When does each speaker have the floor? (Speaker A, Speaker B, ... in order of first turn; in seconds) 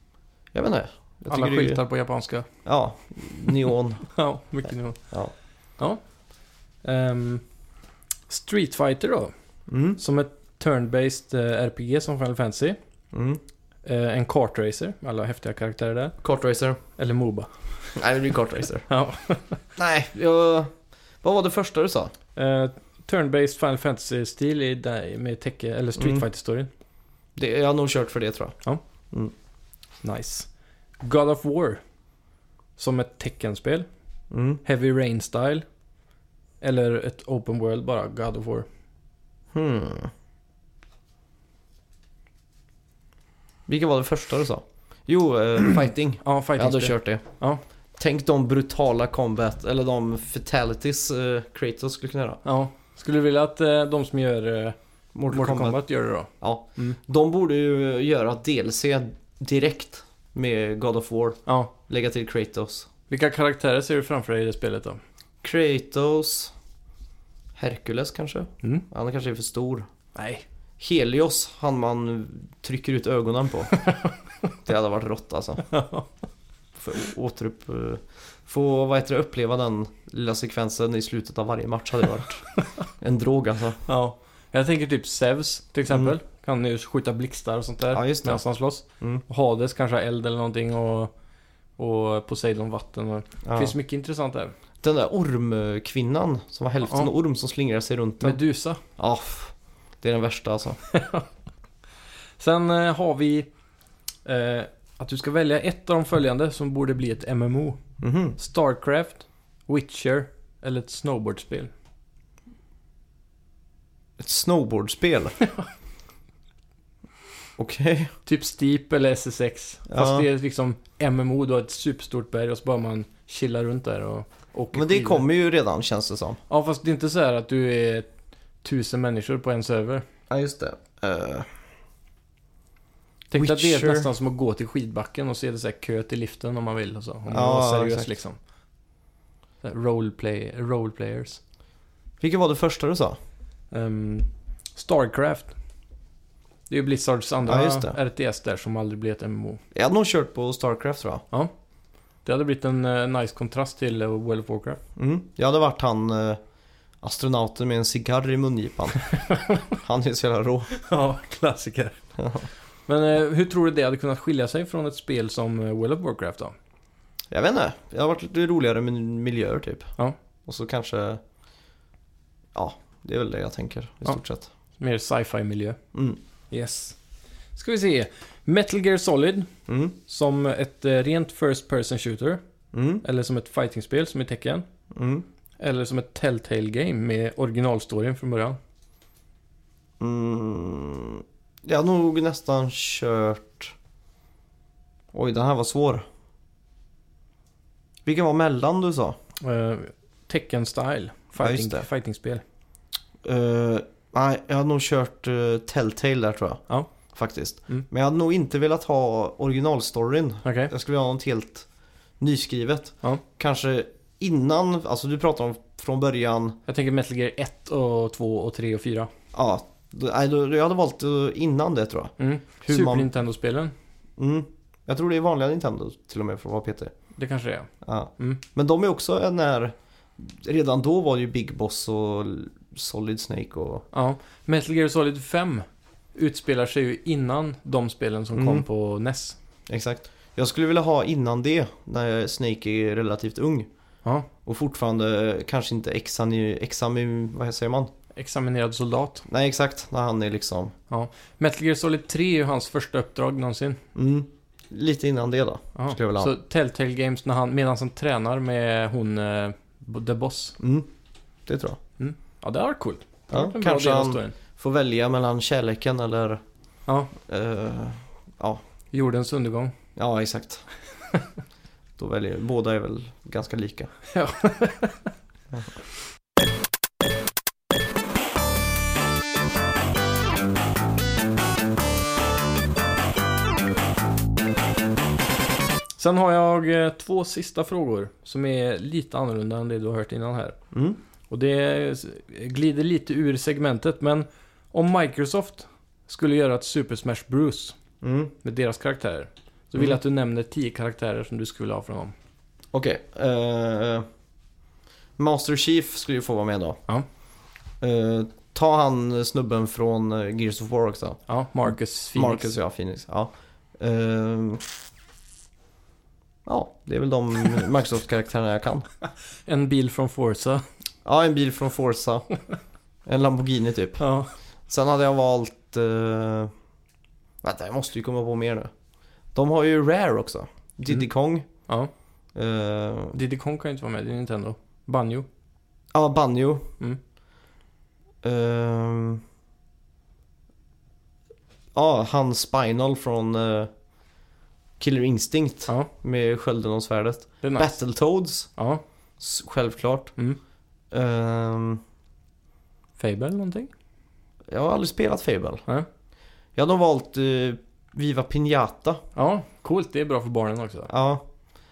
Speaker A: 0.5-1.8, 2.6-4.0, 9.7-10.0, 13.1-13.4, 16.2-16.8, 17.9-18.9, 19.8-22.1, 26.0-26.2, 27.4-28.6, 34.3-34.6, 39.5-40.1, 43.7-47.2, 48.0-52.4, 55.1-55.8, 56.4-62.9, 65.4-66.5, 67.5-69.9, 70.8-73.8, 74.6-75.7, 76.8-82.4, 83.0-83.8, 85.9-86.1, 87.9-88.4, 93.4-93.7, 94.8-98.4, 99.0-100.8, 108.0-108.4, 114.2-115.4, 117.6-118.1, 119.9-120.3, 124.7-126.4, 130.3-131.5, 133.3-134.1, 137.3-138.1, 142.2-143.2, 147.4-148.0, 149.7-151.2, 154.9-156.4, 157.0-159.0, 159.8-160.7, 162.2-162.4, 167.3-169.9, 170.4-171.2, 172.5-174.5, 175.9-176.2, 179.7-179.9, 182.7-183.0, 184.9-185.2, 190.0-193.7, 195.1-196.0, 198.1-199.2, 201.4-201.8, 203.2-206.6, 207.1-211.7, 212.2-216.6, 219.3-223.1, 224.2-226.9, 227.8-233.8, 238.3-238.7, 239.7-243.7, 244.4-247.9, 249.3-250.7, 253.9-256.3, 260.6-260.9, 261.5-261.8, 263.3-266.4, 267.2-268.6, 269.9-270.6, 272.0-273.9, 290.7-291.0, 298.0-298.3, 302.7-304.0, 305.2-306.8, 307.8-311.2, 312.1-314.7, 316.4-318.8, 321.0-322.3, 323.1-324.0, 324.7-326.5, 327.4-328.7, 329.3-331.4, 332.3-333.1, 335.9-336.7, 338.2-339.2, 341.7-343.7, 344.8-348.5, 349.2-350.1, 350.9-351.8, 354.5-355.6, 356.5-359.0, 360.9-361.2
Speaker B: 1.3-2.5, 4.1-5.0, 6.8-7.4, 8.3-9.3, 10.0-12.8, 13.8-16.2, 17.0-18.0, 18.9-19.6, 22.4-26.7, 30.0-30.5, 31.0-31.8, 32.8-33.9, 34.6-35.6, 36.6-38.7, 46.2-47.6, 52.4-54.8, 55.3-57.0, 61.5-61.7, 63.1-65.0, 70.1-70.4, 73.8-74.1, 75.7-76.1, 83.8-91.1, 91.8-94.5, 96.8-97.1, 98.2-98.8, 100.9-101.2, 102.4-103.5, 104.2-107.8, 108.4-111.7, 118.2-125.2, 126.5-128.1, 128.6-130.0, 133.3-138.4, 139.6-141.4, 143.7-145.5, 146.7-149.6, 152.2-154.8, 159.2-159.6, 160.7-162.0, 162.9-166.5, 174.8-175.8, 176.5-177.0, 177.6-179.5, 180.0-182.4, 183.0-184.7, 185.6-188.6, 199.4-202.4, 210.4-210.7, 216.7-219.1, 222.2-223.7, 227.2-228.4, 233.9-239.4, 248.1-249.2, 250.9-253.8, 255.8-260.6, 262.0-264.4, 266.9-267.1, 268.9-269.7, 274.1-275.1, 286.0-290.6, 291.3-297.7, 298.4-302.1, 311.3-312.5, 319.4-320.6, 324.0-324.3, 333.1-335.2, 347.4-347.7, 348.6-348.8, 353.0-353.7, 359.1-360.9